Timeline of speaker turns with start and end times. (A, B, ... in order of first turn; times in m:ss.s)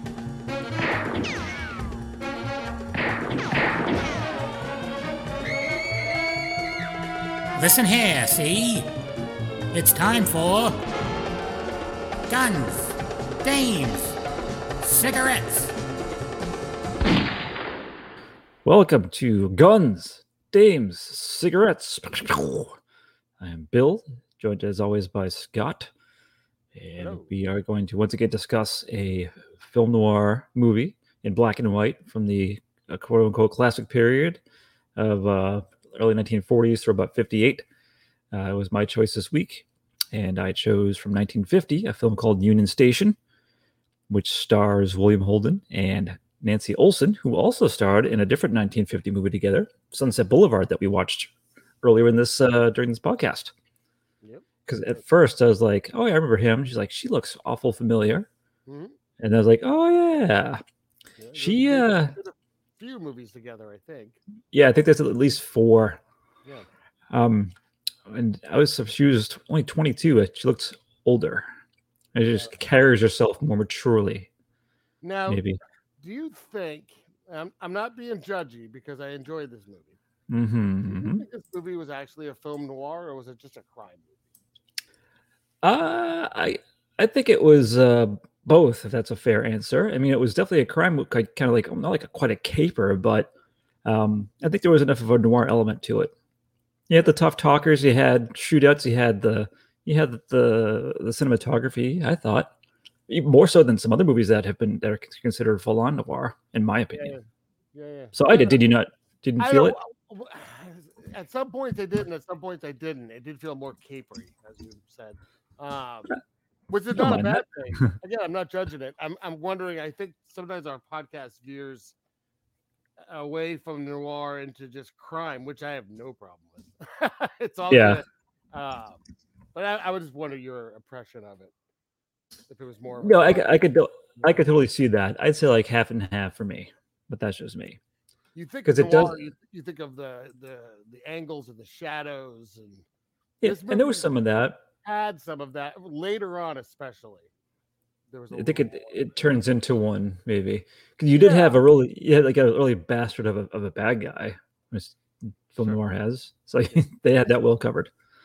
0:07.6-0:08.9 A
0:09.7-0:10.8 A
0:12.3-0:14.2 A
0:14.8-0:15.7 A
0:18.6-0:22.8 B
0:23.4-0:25.9 B
0:26.7-0:34.4 B
0:27.0-0:27.2 C
0:35.0-0:37.6 B
0:38.3-0:43.2 B
0:44.1-0:53.5 B
0:54.7-0:58.3 B
0:58.7-0:58.9 C
0:59.2-1:00.6 B
1:01.2-1:04.2 C
1:01.4-1:02.1 B
1:04.5-1:06.0 B
1:07.1-1:07.5 B
1:08.0-1:11.4 B
1:12.1-1:14.3 B
1:12.3-1:12.5 C
1:15.0-1:15.4 C
1:15.3-1:15.6 B
1:16.0-1:20.0 C
1:20.3-1:21.2 B
1:20.9-1:24.1 C
1:25.6-1:33.3 B
1:33.8-1:36.1 B
1:36.9-1:42.5 B
1:43.1-1:47.1 B
1:46.9-1:47.2 C
1:47.7-1:48.6 C
1:48.1-1:49.8 B
1:49.4-1:56.1 C
1:56.7-2:01.9 C
1:56.9-1:57.4 B
2:03.0-2:09.0 C
2:07.7-2:08.0 B
2:09.5-2:11.5 C
2:12.5-2:13.5 C
2:13.0-2:17.8 B
2:18.3-2:22.8 C
2:18.6-2:19.1 B
2:23.4-2:24.6 B
2:23.4-2:24.1 C
2:24.8-2:27.3 C
2:28.1-2:29.4 C
2:28.3-2:34.9 B
2:31.1-2:31.6 C
2:35.5-2:37.9 B